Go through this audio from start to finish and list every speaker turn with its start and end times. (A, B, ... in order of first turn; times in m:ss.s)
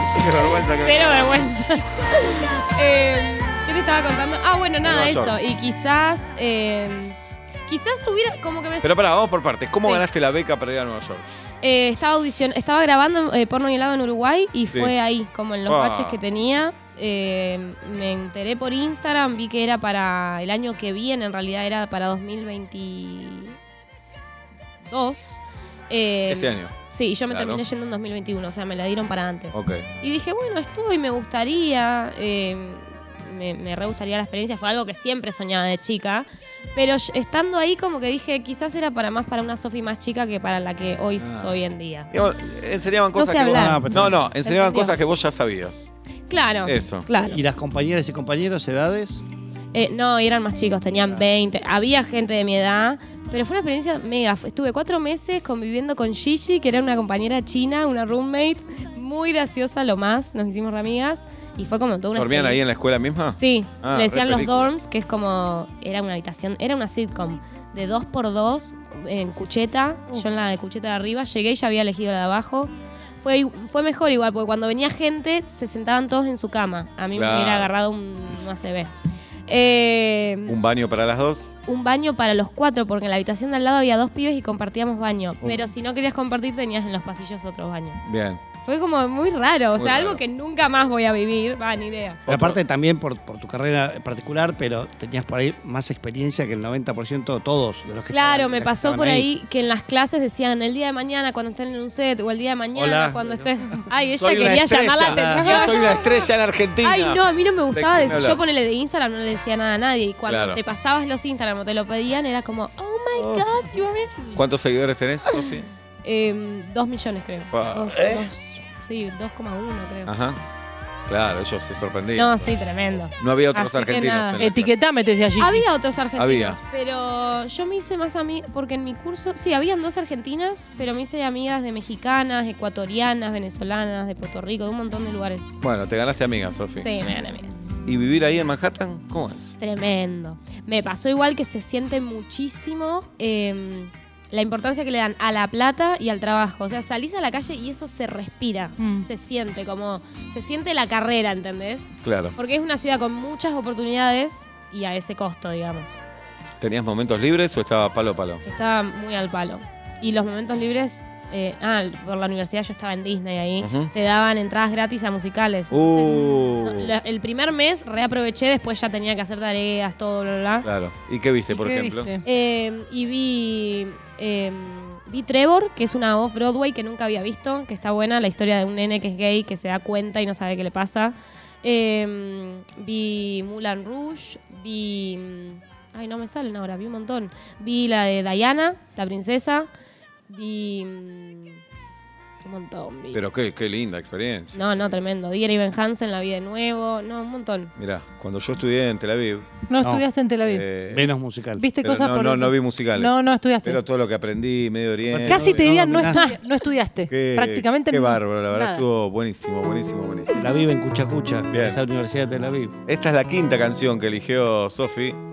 0:00.1-0:01.5 A
0:00.8-0:08.9 B
0:04.8-0:05.4 A
0:08.8-0:11.2 A
0:11.6-0:23.6 B
0:15.7-0:16.2 A
0:24.9-0:42.1 B
0:26.3-0:26.7 A
0:27.3-0:27.6 A
0:29.5-0:29.9 A
0:41.2-0:41.5 A
0:42.1-0:45.8 A
0:43.2-0:45.0 B
0:43.4-0:44.2 C
0:46.3-0:47.4 B
0:46.6-0:47.1 A
0:47.2-0:49.2 C
0:49.7-1:02.6 B
1:02.2-1:04.7 A
1:03.4-1:18.9 B
1:17.1-1:17.7 A
1:19.5-1:20.6 B
1:20.5-1:21.5 A
1:21.7-1:28.0 B
1:25.4-1:25.7 A
1:28.0-1:28.4 A
1:28.6-1:32.2 B
1:29.8-1:30.2 A
1:32.3-1:32.6 A
1:32.3-1:39.3 C
1:38.1-1:46.1 B
1:42.8-1:43.8 C
1:44.2-1:48.4 A
1:45.0-1:45.6 C
1:46.8-1:54.4 B
1:50.3-1:50.6 A
1:53.2-1:53.5 C
1:54.4-1:55.7 A
1:56.0-2:00.1 B
1:57.5-1:58.1 A
1:58.0-1:58.3 C
2:00.1-2:00.4 A
2:01.1-2:02.5 A
2:02.2-2:04.4 B
2:03.2-2:04.8 A
2:04.4-2:05.7 D
2:05.4-2:15.6 B
2:06.2-2:06.6 A
2:15.6-2:16.9 A
2:16.8-2:17.7 B
2:17.9-2:19.5 A
2:19.6-2:36.0 B
2:28.8-2:29.1 D
2:32.0-2:32.4 A
2:36.6-2:38.4 A
2:38.4-2:50.7 B
2:43.6-2:43.9 A
2:45.7-2:46.9 A
2:50.6-2:52.1 A
2:51.5-2:52.2 D
2:52.2-3:09.7 B
3:10.3-3:11.6 B
3:12.4-3:13.2 B
3:13.1-3:14.6 A
3:14.5-3:17.7 B
3:17.8-3:19.5 A
3:19.7-3:20.7 D
3:19.8-3:20.0 C
3:20.4-3:21.1 A
3:20.9-3:21.7 C
3:21.6-3:23.8 D
3:21.8-3:25.7 A
3:25.1-3:26.3 C
3:25.3-3:28.8 D
3:27.1-3:30.4 A
3:30.3-3:32.8 C
3:31.5-3:31.8 A
3:32.9-3:35.2 A